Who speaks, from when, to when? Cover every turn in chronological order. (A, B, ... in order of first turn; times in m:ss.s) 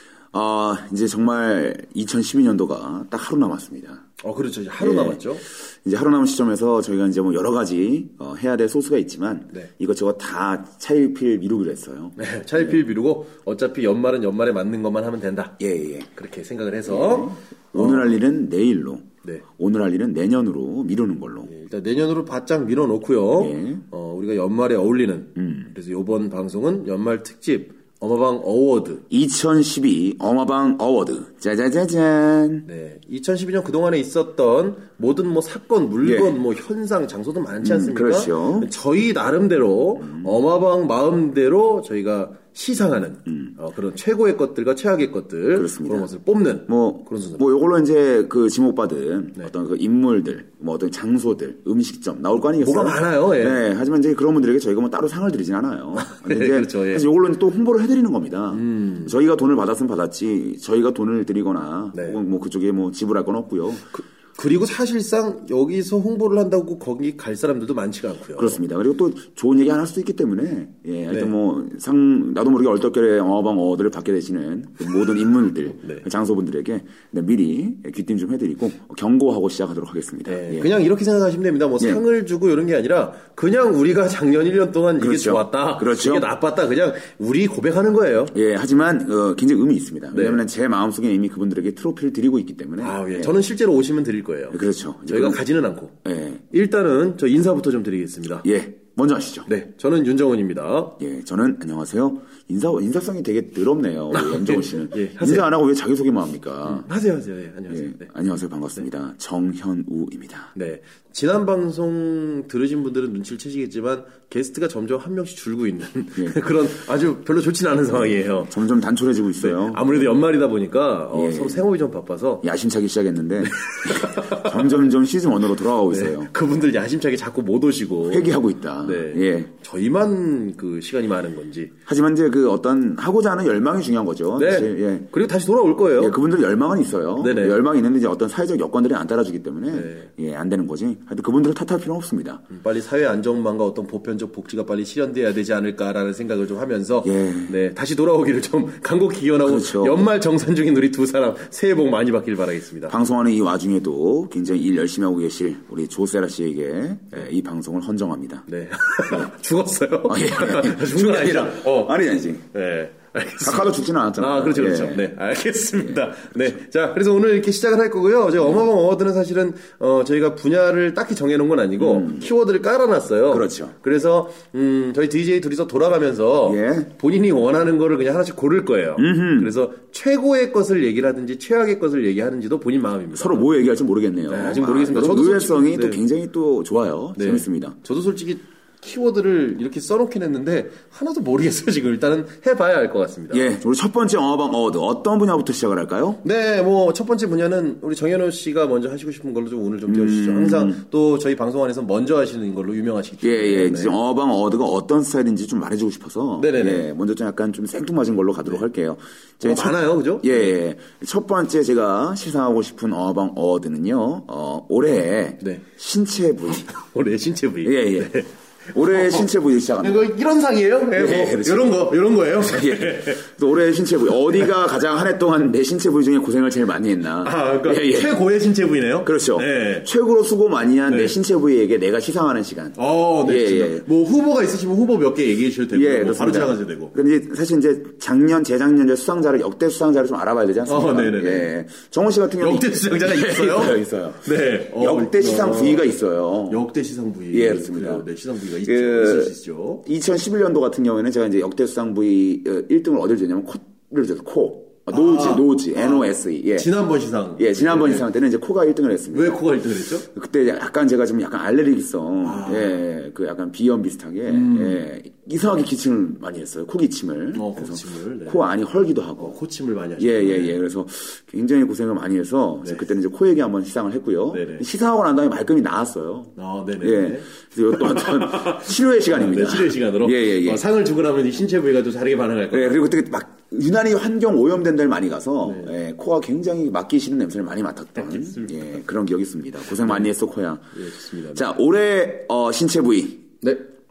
0:00.3-0:04.0 A
0:04.2-0:05.4 B
0:04.8-0:05.2 A
0:05.8-0:12.7 A
0:12.2-0:15.6 B
0:15.6-0:16.1 A
0:16.1-0:18.1 B
0:16.9-0:21.5 A
0:21.5-0:29.0 B
0:23.4-0:23.8 A
0:25.4-0:25.7 A
0:29.1-0:32.7 A
0:32.7-0:47.4 B
0:36.0-0:36.4 A
0:37.6-0:38.7 A
0:40.0-0:40.3 A
0:45.5-0:46.1 A
0:46.7-1:03.8 A
0:52.6-0:53.6 B
0:56.0-0:57.1 B
0:58.5-0:59.1 B
1:01.9-1:02.2 B
1:03.9-1:08.6 B
1:08.4-1:20.7 A
1:20.3-1:28.3 B
1:25.0-1:26.3 A
1:28.3-1:33.4 A
1:30.1-1:30.4 B
1:32.8-1:36.0 B
1:34.5-1:35.4 A
1:36.0-1:36.4 A
1:36.5-1:38.5 B
1:38.4-1:39.5 A
1:39.5-1:41.0 B
1:41.0-1:46.9 A
1:44.1-1:45.5 B
1:46.6-1:48.1 B
1:47.7-1:50.5 A
1:50.6-1:58.5 B
1:58.4-2:00.1 A
1:59.4-2:02.4 B
2:01.1-2:01.6 A
2:02.4-2:06.3 A
2:03.7-2:04.5 B
2:05.9-2:08.3 B
2:08.1-2:09.5 A
2:08.8-2:11.7 B
2:11.9-2:15.1 A
2:14.4-2:16.2 B
2:16.0-2:22.4 A
2:17.2-2:17.6 B
2:19.7-2:20.1 B
2:22.5-2:33.0 B
2:27.0-2:27.5 A
2:29.4-2:30.0 A
2:32.9-2:38.4 A
2:38.5-2:42.0 B
2:39.0-2:39.3 A
2:40.1-2:42.4 A
2:42.5-3:03.5 B
2:43.4-2:45.1 A
2:45.8-2:46.5 A
2:51.8-2:52.2 A
2:53.3-2:53.8 A
2:56.4-2:56.9 A
2:59.0-2:59.5 A
3:03.1-3:07.8 A
3:04.3-3:06.0 B
3:07.2-3:13.5 B
3:13.3-3:16.2 A
3:16.2-3:24.0 B
3:19.9-3:20.8 A
3:23.2-3:36.7 A
3:26.4-3:26.9 B
3:29.4-3:30.5 B
3:36.6-3:39.2 B
3:37.6-3:38.1 A
3:38.7-3:40.0 A
3:39.8-3:43.2 B
3:41.0-3:41.7 A
3:42.4-3:48.2 A
3:47.2-3:49.9 B
3:49.0-3:53.8 A
3:50.9-3:51.2 B
3:52.8-3:56.9 B
3:55.7-4:06.6 A
4:00.7-4:01.5 B
4:02.4-4:05.9 B
4:06.5-4:09.8 B
4:07.3-4:08.0 A
4:08.6-4:09.3 A
4:09.8-4:16.7 A
4:14.9-4:18.1 B
4:17.4-4:19.5 A
4:19.1-4:20.1 B
4:20.0-4:29.4 A
4:22.2-4:22.8 B
4:24.3-4:24.8 B
4:27.3-4:28.5 B
4:29.2-4:30.6 B
4:30.0-4:40.6 A
4:34.3-4:34.6 B
4:36.4-4:42.8 B
4:42.5-4:50.8 A
4:45.4-4:45.7 B
4:48.0-4:48.6 B
4:49.8-4:50.1 B
4:50.7-4:51.5 B
4:51.3-4:53.3 A